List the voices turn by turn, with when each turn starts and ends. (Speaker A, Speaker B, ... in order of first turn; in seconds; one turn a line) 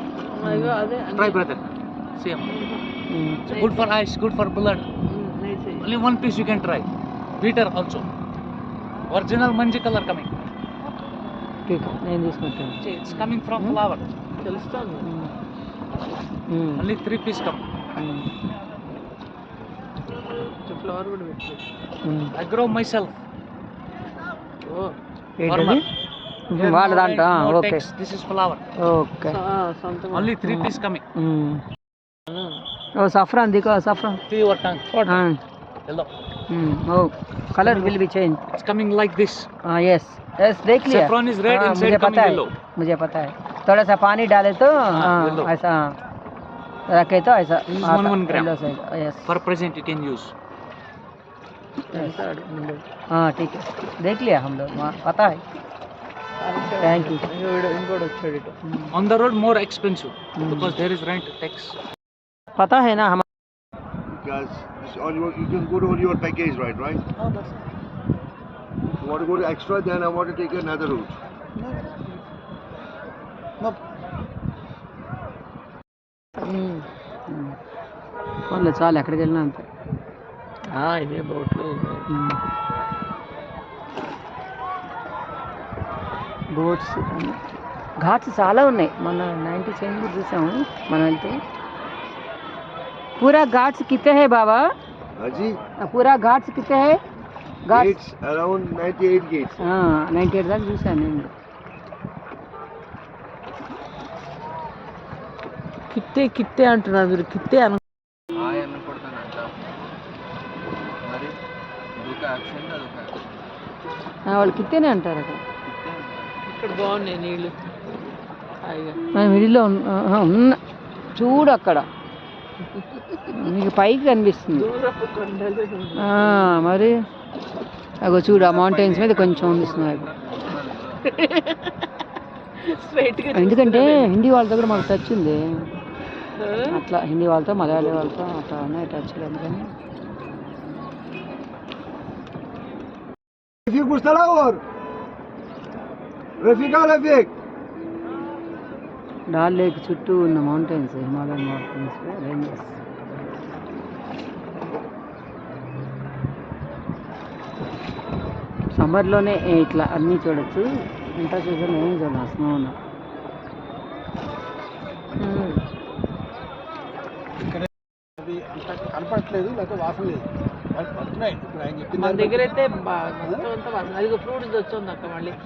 Speaker A: 0.3-1.4
Speaker B: 0.4-0.8
Speaker C: 1.1-2.5
Speaker A: 2.5-2.8
Speaker B: 3.1-3.4
Speaker C: 3.5-4.9
Speaker A: 3.5-3.9
Speaker A: 5.1-5.9
Speaker C: 5.8-6.9
Speaker C: 7.4-8.1
Speaker C: 9.1-10.3
Speaker B: 11.7-12.8
Speaker C: 12.8-14.0
Speaker A: 14.4-15.1
Speaker B: 15.0-15.3
Speaker B: 16.5-16.9
Speaker C: 16.8-17.6
Speaker B: 18.0-18.3
Speaker A: 20.6-21.6
Speaker B: 22.0-22.3
Speaker C: 22.4-23.1
Speaker A: 24.7-24.9
Speaker B: 25.4-25.8
Speaker C: 25.4-25.8
Speaker B: 26.5-27.9
Speaker C: 26.5-28.6
Speaker B: 28.8-29.4
Speaker A: 29.3-30.3
Speaker C: 30.1-31.0
Speaker B: 30.4-31.6
Speaker A: 32.3-32.6
Speaker B: 33.0-34.2
Speaker C: 34.3-35.3
Speaker B: 35.0-35.4
Speaker B: 36.5-38.4
Speaker C: 37.6-37.9
Speaker C: 38.5-39.5
Speaker B: 39.7-46.0
Speaker C: 40.9-42.5
Speaker C: 44.9-45.5
Speaker B: 46.9-49.3
Speaker C: 47.7-48.5
Speaker C: 49.3-50.3
Speaker A: 51.9-52.8
Speaker B: 53.1-55.4
Speaker A: 56.4-58.5
Speaker B: 56.8-57.3
Speaker B: 58.6-59.0
Speaker C: 58.9-61.8
Speaker B: 60.4-60.8
Speaker B: 62.6-63.2
Speaker D: 64.1-67.0
Speaker E: 67.2-67.5
Speaker D: 69.0-71.2
Speaker E: 71.6-72.0
Speaker A: 76.4-76.9
Speaker B: 77.3-77.5
Speaker B: 78.5-79.7
Speaker A: 80.7-82.1
Speaker B: 82.1-82.4
Speaker B: 86.5-87.4
Speaker B: 88.0-91.4
Speaker B: 93.2-94.7
Speaker D: 95.2-95.6
Speaker B: 95.8-97.0
Speaker B: 97.7-98.0
Speaker D: 97.7-99.6
Speaker B: 99.6-101.3
Speaker A: 105.9-107.8
Speaker F: 108.3-109.5
Speaker F: 111.0-111.4
Speaker F: 112.0-113.2
Speaker B: 114.3-115.4
Speaker F: 115.7-116.4
Speaker A: 116.5-117.6
Speaker A: 118.6-119.0
Speaker B: 119.2-120.6
Speaker B: 121.2-121.8
Speaker A: 122.7-123.3
Speaker B: 123.3-124.7
Speaker A: 124.5-126.7
Speaker B: 126.0-126.9
Speaker B: 128.0-130.1
Speaker F: 128.3-131.2
Speaker A: 131.1-131.8
Speaker A: 132.7-134.1
Speaker B: 133.3-135.7
Speaker F: 134.5-135.2
Speaker A: 136.4-136.8
Speaker B: 136.7-139.7
Speaker D: 137.7-138.2
Speaker D: 143.7-144.6
Speaker D: 146.4-147.3
Speaker B: 149.3-152.8
Speaker B: 158.8-162.8
Speaker A: 165.2-165.6
Speaker E: 167.4-172.6
Speaker A: 172.0-175.3